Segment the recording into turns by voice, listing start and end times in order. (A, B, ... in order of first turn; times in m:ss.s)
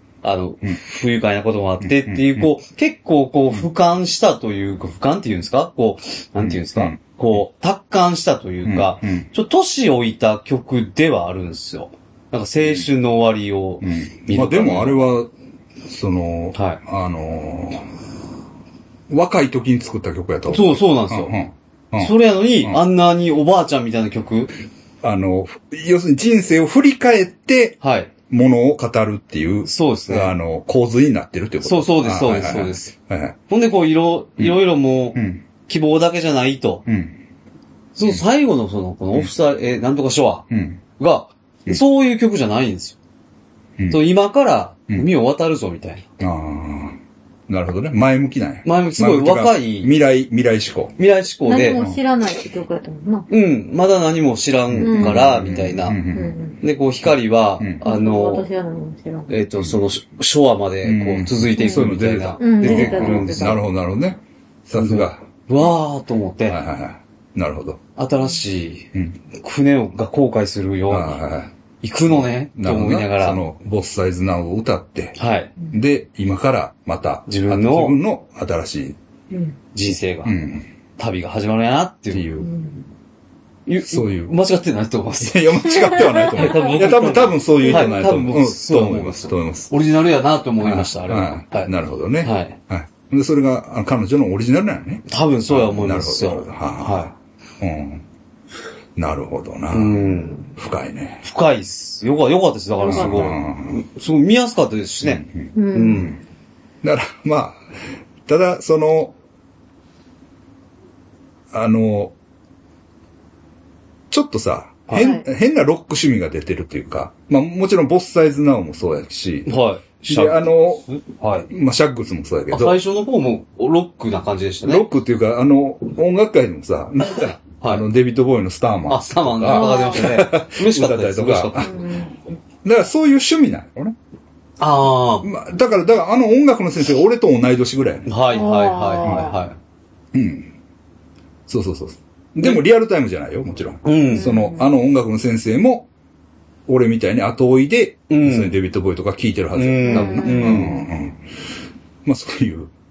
0:00.2-0:15.1 A
0:01.8-0:02.5 B
0:06.4-0:07.0 B
0:08.6-0:09.3 B
0:13.8-0:15.3 B
0:15.9-0:17.9 B
0:16.5-0:16.8 A
0:19.1-0:22.8 B
0:20.5-0:21.4 A
0:22.0-0:24.6 A
0:25.0-0:27.8 B
0:27.8-0:28.1 A
0:28.3-0:33.4 B
0:29.7-0:30.3 A
0:31.6-0:32.9 A
0:33.5-0:36.9 A
0:35.1-0:35.4 B
0:36.9-0:37.2 B
0:38.0-0:43.0 A
0:40.5-0:40.8 B
0:43.9-0:46.1 A
0:46.2-0:51.0 B
0:48.6-0:49.9 A
0:51.0-0:51.8 A
0:51.5-0:53.3 C
0:53.3-0:56.0 A
0:54.7-0:56.4 B
0:54.8-0:55.3 C
0:56.1-0:56.6 C
0:56.6-0:58.5 A
0:57.8-0:59.3 C
0:59.3-1:03.6 A
1:00.8-1:05.2 B
1:01.6-1:01.9 C
1:02.4-1:03.6 C
1:04.7-1:06.6 A
1:06.5-1:07.8 B
1:08.0-1:11.2 A
1:10.9-1:11.5 B
1:11.8-1:13.5 A
1:12.1-1:15.2 B
1:15.2-1:15.5 A
1:15.7-1:19.0 B
1:17.3-1:18.0 A
1:19.3-1:19.6 C
1:19.7-1:20.4 A
1:20.2-1:20.6 B
1:21.0-1:22.4 A
1:22.1-1:22.5 B
1:22.4-1:22.8 C
1:23.7-1:32.6 A
1:23.9-1:24.4 B
1:25.2-1:29.7 B
1:25.9-1:26.5 C
1:27.6-1:28.0 C
1:30.6-1:38.0 B
1:35.1-1:37.1 A
1:39.0-1:41.2 B
1:39.7-1:40.5 A
1:41.2-1:46.2 A
1:42.8-1:43.3 C
1:42.8-1:43.8 B
1:45.0-1:45.5 B
1:45.5-1:46.2 C
1:46.8-1:47.6 B
1:48.3-1:49.2 B
1:51.5-1:52.1 B
1:54.1-2:00.9 B
1:55.0-1:55.2 C
1:59.5-2:01.5 A
2:01.5-2:02.8 B
2:02.5-2:04.9 A
2:04.6-2:11.7 B
2:07.2-2:07.9 A
2:08.9-2:11.8 A
2:09.5-2:10.2 C
2:11.6-2:12.2 C
2:12.6-2:14.0 B
2:14.6-2:15.3 A
2:15.2-2:18.1 B
2:18.1-2:19.6 A
2:18.3-2:19.4 C
2:19.0-2:19.3 B
2:20.1-2:20.5 B
2:21.5-2:25.9 B
2:23.8-2:24.3 A
2:24.1-2:24.6 C
2:26.7-2:31.2 B
2:28.1-2:28.6 A
2:29.6-2:30.9 A
2:29.9-2:30.8 C
2:32.0-2:32.7 B